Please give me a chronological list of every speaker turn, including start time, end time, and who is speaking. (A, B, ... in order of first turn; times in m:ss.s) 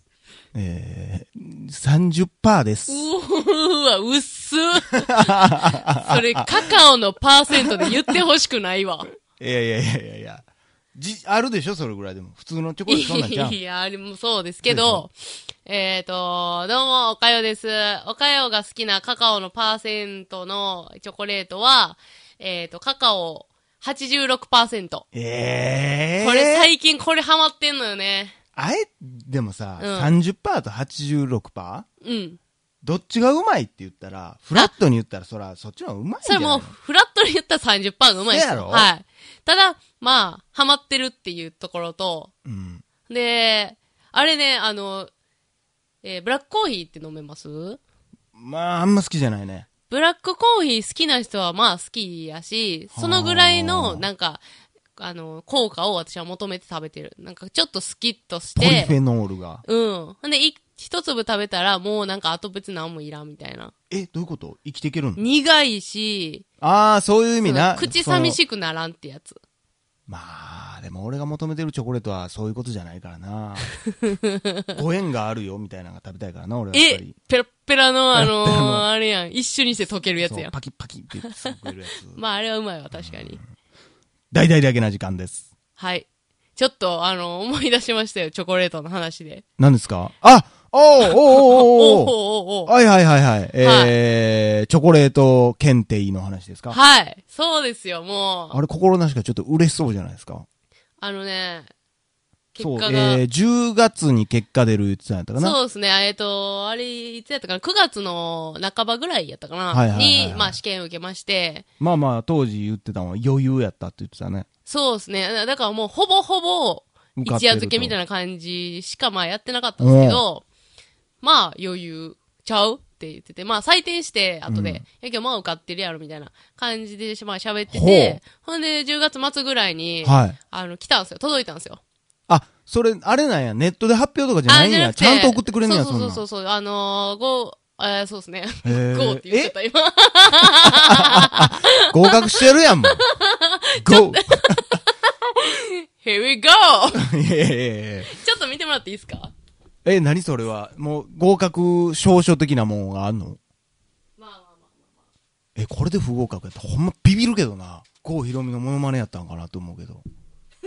0:00.5-0:03.1 A
0:02.9-0:09.1 B
0:05.1-0:06.5 A
0:07.6-0:07.9 A
0:09.3-0:13.6 A
0:12.9-0:25.0 B
0:14.6-0:15.0 A
0:25.1-0:26.7 A
0:26.2-0:28.3 B
0:28.6-0:31.8 A
0:29.8-0:30.2 B
0:32.0-0:32.4 B
0:32.8-0:36.7 A
0:36.2-0:42.3 B
0:38.3-0:38.9 A
0:42.4-0:42.8 A
0:43.1-0:45.1 B
0:46.0-0:47.8 B
0:48.3-0:49.7 A
0:49.9-0:54.4 B
0:52.9-0:54.1 A
0:55.0-0:59.0 B
0:58.6-0:59.6 A
0:59.6-1:03.7 B
1:03.9-1:05.2 A
1:05.2-1:06.4 B
1:06.6-1:08.4 A
1:07.4-1:09.4 B
1:10.1-1:13.8 A
1:14.0-1:14.8 B
1:14.7-1:17.2 A
1:16.7-1:20.5 B
1:18.1-1:18.9 A
1:20.2-1:22.2 A
1:21.2-1:21.5 B
1:22.1-1:23.4 B
1:22.9-1:23.4 A
1:24.3-1:25.5 A
1:25.8-1:29.4 B
1:29.6-1:36.8 A
1:31.0-1:32.7 B
1:33.6-1:33.9 B
1:36.7-1:38.6 B
1:38.5-1:40.4 A
1:41.0-1:41.7 B
1:42.5-1:43.2 B
1:42.6-1:45.6 A
1:45.4-1:51.7 B
1:49.7-1:50.6 A
1:51.8-1:54.5 A
1:54.7-2:00.4 B
1:57.2-1:57.9 A
1:59.8-2:00.2 A
2:01.2-2:11.8 B
2:04.5-2:04.8 A
2:07.7-2:08.2 A
2:10.0-2:10.4 A
2:12.3-2:16.2 A
2:14.5-2:27.1 B
2:18.6-2:19.5 A
2:20.6-2:23.0 A
2:23.8-2:24.8 A
2:26.9-2:28.1 A
2:28.0-2:29.3 B
2:29.8-2:33.4 A
2:34.2-2:34.8 B
2:35.6-2:40.0 A